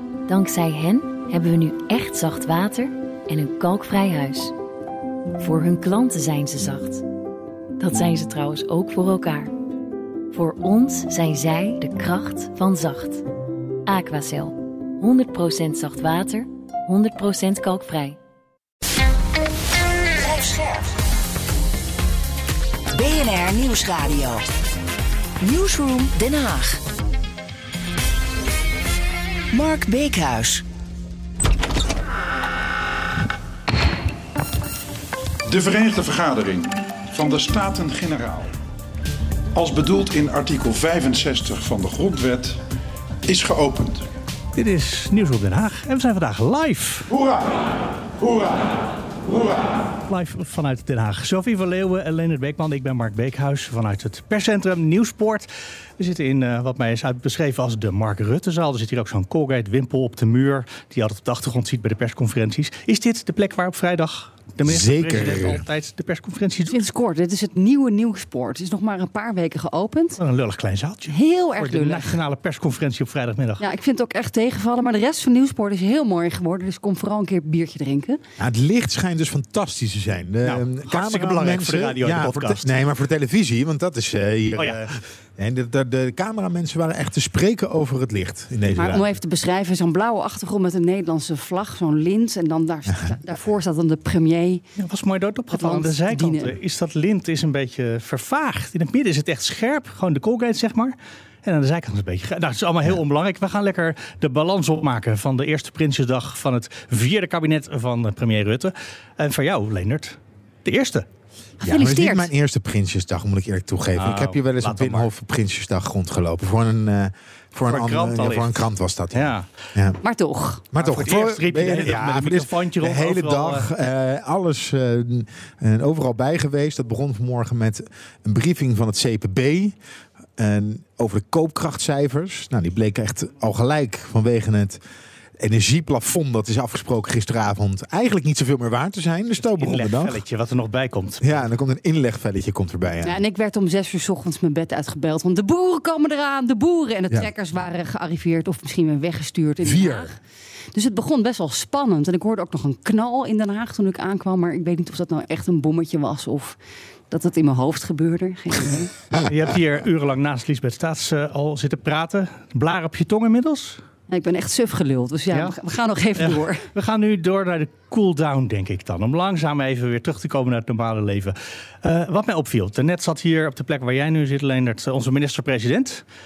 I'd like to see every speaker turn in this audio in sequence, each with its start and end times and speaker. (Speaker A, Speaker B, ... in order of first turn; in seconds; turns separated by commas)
Speaker A: 0.3-4.5, Speaker A: 5.4-7.0, Speaker A: 7.8-9.5, Speaker A: 10.3-13.2, Speaker A: 13.9-18.2, Speaker B: 20.2-20.9, Speaker B: 22.9-24.4, Speaker B: 25.4-26.8, Speaker B: 29.5-30.6, Speaker C: 35.5-38.5, Speaker C: 39.5-42.6, Speaker C: 43.3-44.0, Speaker D: 44.5-47.1, Speaker C: 47.1-47.6, Speaker C: 48.2-48.7, Speaker C: 49.3-49.7, Speaker D: 50.1-55.5, Speaker D: 56.0-66.8, Speaker E: 64.6-65.6, Speaker F: 66.7-70.2, Speaker D: 70.2-73.6, Speaker F: 71.1-72.2, Speaker F: 73.6-78.2, Speaker E: 78.4-89.1, Speaker D: 80.4-82.7, Speaker D: 84.5-84.9, Speaker F: 88.7-94.6, Speaker D: 94.8-111.0, Speaker F: 95.5-96.5, Speaker F: 111.6-112.3, Speaker E: 111.6-120.0, Speaker D: 114.0-115.1, Speaker D: 117.7-119.5, Speaker F: 120.0-120.7, Speaker E: 120.7-129.8, Speaker D: 120.8-123.7, Speaker E: 130.4-134.8, Speaker E: 135.4-140.2, Speaker D: 139.4-141.4, Speaker E: 141.2-143.2, Speaker F: 143.0-150.2, Speaker E: 149.6-150.1, Speaker F: 150.7-156.6, Speaker F: 157.1-158.9, Speaker D: 159.2-163.8, Speaker F: 164.1-166.7, Speaker D: 165.3-165.6, Speaker D: 166.2-176.0